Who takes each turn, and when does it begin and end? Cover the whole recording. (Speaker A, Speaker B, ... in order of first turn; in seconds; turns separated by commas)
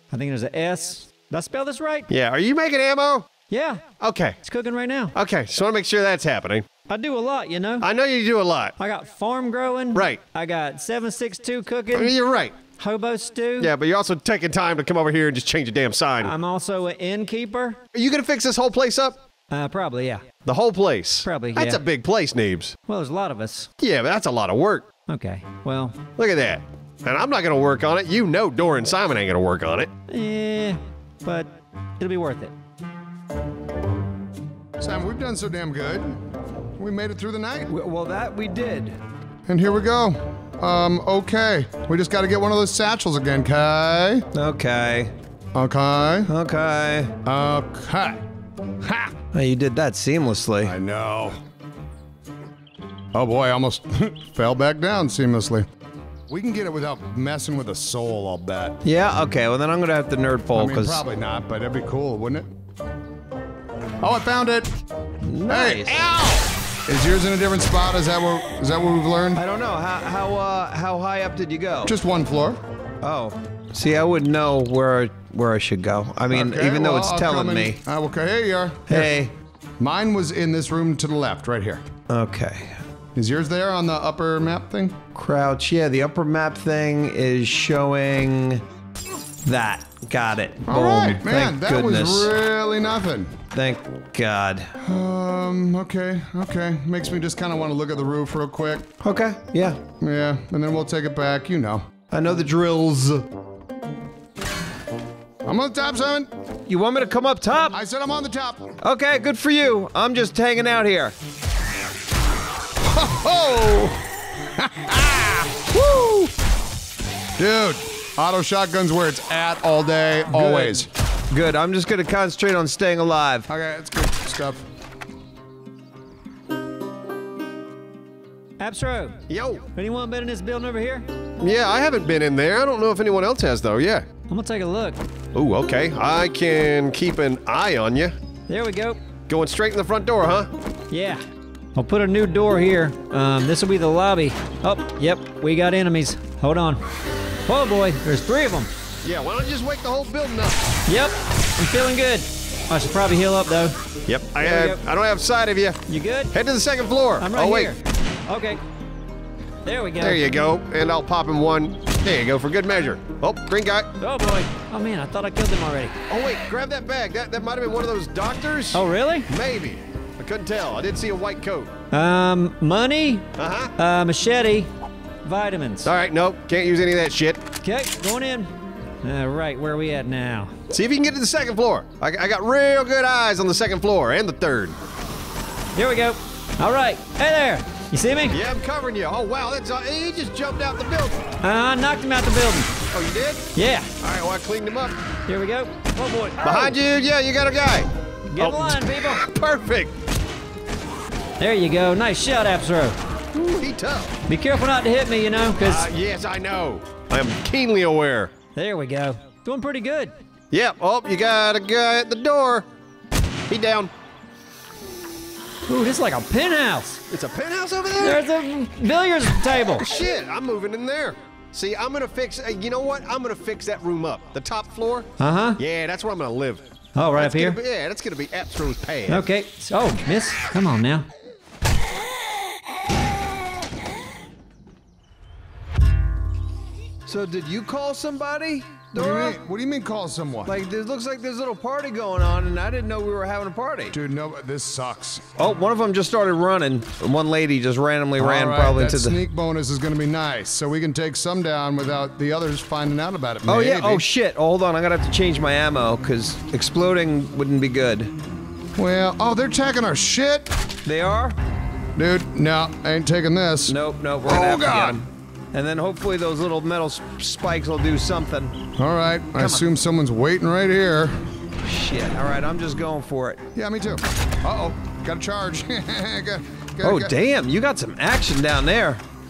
Speaker A: 0.1-2.1, Speaker B: 2.1-3.3, Speaker A: 3.5-3.8, Speaker B: 4.0-4.4, Speaker A: 4.4-5.1, Speaker B: 5.1-6.6, Speaker A: 6.9-7.9, Speaker B: 7.8-8.8, Speaker A: 8.8-12.1, Speaker B: 9.9-10.2, Speaker B: 11.9-12.5, Speaker A: 12.8-13.7, Speaker B: 13.6-16.3, Speaker A: 16.2-17.8, Speaker B: 17.9-19.2, Speaker A: 19.5-20.2, Speaker B: 20.4-22.8, Speaker A: 21.2-21.8, Speaker A: 22.9-23.7, Speaker B: 23.8-24.9, Speaker A: 25.1-26.0, Speaker B: 26.2-29.9, Speaker A: 30.1-32.5, Speaker C: 34.8-36.2, Speaker C: 36.8-37.7, Speaker D: 37.7-39.0, Speaker C: 39.5-44.3, Speaker D: 44.3-45.1, Speaker C: 45.5-46.3, Speaker D: 46.3-47.1, Speaker C: 47.2-48.2, Speaker C: 48.8-49.1, Speaker D: 49.3-50.7, Speaker C: 50.6-51.4, Speaker C: 53.1-55.7, Speaker C: 56.3-58.8, Speaker D: 58.8-61.0, Speaker C: 60.5-62.5, Speaker C: 64.0-64.7, Speaker D: 65.2-66.0, Speaker C: 65.5-69.4, Speaker D: 69.3-72.0, Speaker C: 71.8-72.6, Speaker D: 73.0-77.8, Speaker C: 76.3-79.2, Speaker D: 78.9-79.3, Speaker C: 79.8-81.8, Speaker D: 82.1-82.8, Speaker C: 83.1-85.0, Speaker D: 85.1-88.6, Speaker D: 89.4-92.3, Speaker C: 90.7-93.4, Speaker D: 93.5-94.7, Speaker C: 94.8-98.9, Speaker D: 99.0-99.8, Speaker C: 100.0-101.9, Speaker D: 102.1-103.3, Speaker C: 105.4-106.3, Speaker D: 106.7-107.8, Speaker C: 107.7-108.8, Speaker D: 108.8-111.1, Speaker C: 112.8-115.8, Speaker D: 115.8-116.3, Speaker C: 117.4-120.9, Speaker D: 120.3-123.5, Speaker C: 123.5-124.7, Speaker A: 128.6-129.2, Speaker B: 129.3-129.7, Speaker A: 129.7-131.1, Speaker B: 131.4-134.1, Speaker A: 134.3-135.0, Speaker B: 135.3-138.1, Speaker A: 138.5-139.0, Speaker B: 139.3-140.5, Speaker A: 140.9-141.2, Speaker A: 141.7-146.8, Speaker A: 147.4-148.7, Speaker B: 149.0-150.7, Speaker A: 150.9-153.7, Speaker B: 154.1-155.8, Speaker A: 154.4-154.8, Speaker A: 155.9-156.3, Speaker B: 156.3-157.7, Speaker A: 157.2-158.6, Speaker A: 159.6-160.3, Speaker B: 160.0-163.9, Speaker A: 164.0-165.9, Speaker B: 166.1-171.7, Speaker A: 168.7-169.3, Speaker A: 171.9-173.2, Speaker B: 173.4-173.7, Speaker A: 173.8-174.7, Speaker A: 175.2-175.9, Speaker B: 175.8-177.4, Speaker A: 177.6-180.5, Speaker B: 180.7-184.8, Speaker A: 185.7-188.4, Speaker B: 188.3-191.2, Speaker A: 191.4-192.7, Speaker B: 192.9-193.5, Speaker A: 193.5-193.9, Speaker B: 194.0-194.9, Speaker A: 195.3-196.8, Speaker B: 196.4-199.9, Speaker A: 198.3-199.2, Speaker A: 201.4-202.9, Speaker B: 203.3-204.2, Speaker A: 204.3-205.9, Speaker B: 205.6-208.3, Speaker A: 208.5-210.1, Speaker B: 210.5-212.6, Speaker B: 213.5-213.9, Speaker A: 215.7-217.0, Speaker B: 217.1-218.2, Speaker A: 218.0-219.9, Speaker B: 219.8-226.6, Speaker A: 225.2-225.6, Speaker A: 226.9-227.6, Speaker B: 227.2-229.2, Speaker A: 229.1-231.1, Speaker D: 237.1-239.4, Speaker C: 238.9-240.5, Speaker D: 240.4-243.9, Speaker C: 243.9-245.2, Speaker D: 245.4-249.2, Speaker C: 248.2-254.1, Speaker D: 253.4-258.1, Speaker C: 258.8-260.5, Speaker D: 260.8-261.4, Speaker C: 261.9-265.0, Speaker D: 263.7-268.6, Speaker C: 268.8-271.1, Speaker D: 269.4-269.6, Speaker D: 271.6-273.4, Speaker C: 273.5-277.1, Speaker D: 276.8-279.0